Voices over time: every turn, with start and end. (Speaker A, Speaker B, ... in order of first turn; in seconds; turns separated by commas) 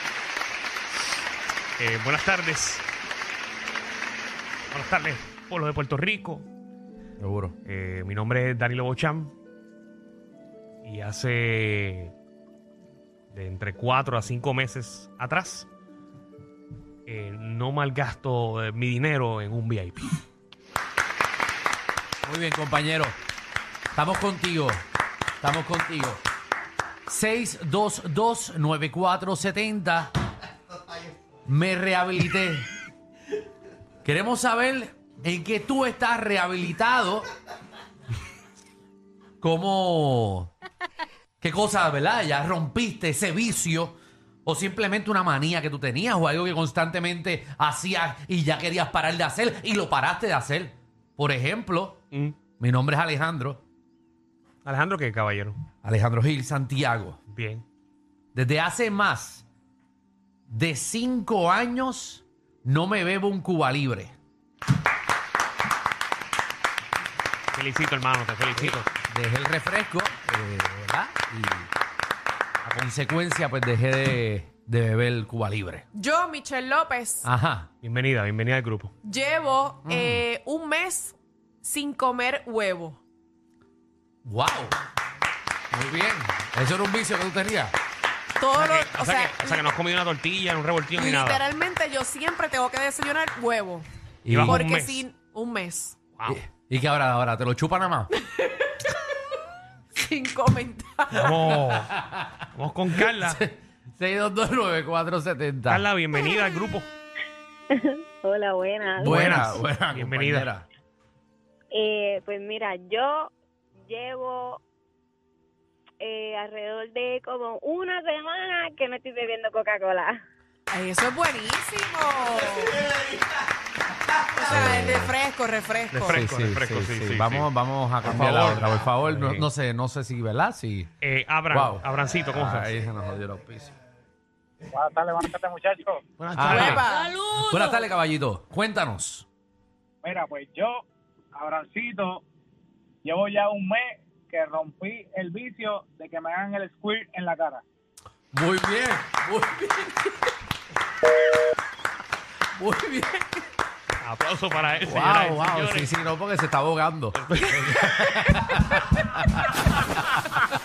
Speaker A: 1.8-2.8, Speaker A: 4.7-6.5, Speaker B: 7.2-7.5, Speaker A: 7.7-9.3, Speaker A: 10.8-12.1, Speaker A: 13.3-15.7, Speaker A: 17.1-20.2, Speaker B: 22.2-23.1, Speaker B: 23.9-24.8, Speaker B: 25.4-26.2, Speaker B: 27.1-30.1, Speaker B: 31.4-32.7, Speaker B: 34.0-37.3, Speaker B: 39.4-40.5, Speaker B: 41.4-52.0, Speaker B: 52.6-53.6, Speaker A: 54.6-55.6, Speaker B: 55.8-57.2, Speaker A: 57.3-57.6, Speaker B: 58.3-59.4, Speaker B: 60.5-64.1, Speaker A: 67.5-68.9, Speaker B: 68.5-71.7, Speaker B: 72.6-75.8, Speaker C: 75.9-77.3, Speaker B: 77.2-77.7, Speaker A: 77.8-78.9, Speaker C: 79.0-83.0, Speaker B: 79.8-80.2, Speaker B: 84.2-84.8, Speaker B: 85.7-87.7, Speaker C: 88.4-89.6, Speaker A: 88.5-91.4, Speaker C: 90.9-93.9, Speaker B: 94.2-94.6, Speaker A: 94.3-95.0, Speaker C: 94.5-96.0, Speaker B: 96.2-98.1, Speaker C: 98.2-98.9, Speaker C: 100.0-101.3, Speaker A: 101.1-101.9, Speaker B: 101.4-102.4, Speaker A: 102.5-103.4, Speaker B: 103.0-105.9, Speaker A: 105.7-106.9, Speaker D: 107.7-109.4, Speaker B: 109.0-110.7, Speaker A: 109.0-110.5, Speaker D: 111.7-113.3, Speaker D: 113.9-114.6, Speaker D: 116.0-120.2, Speaker C: 120.7-122.8, Speaker C: 124.3-126.2, Speaker B: 124.5-125.1, Speaker A: 125.9-127.5, Speaker B: 126.1-130.9, Speaker A: 128.0-129.5, Speaker A: 131.0-132.7, Speaker B: 131.5-133.7, Speaker E: 134.7-136.0, Speaker A: 136.2-136.8, Speaker B: 136.3-139.2, Speaker C: 136.4-137.8, Speaker E: 140.0-140.8, Speaker E: 141.3-142.2, Speaker E: 143.0-147.6, Speaker B: 148.3-150.3, Speaker B: 152.5-153.4, Speaker A: 154.0-155.9, Speaker B: 154.8-160.2, Speaker A: 157.1-157.9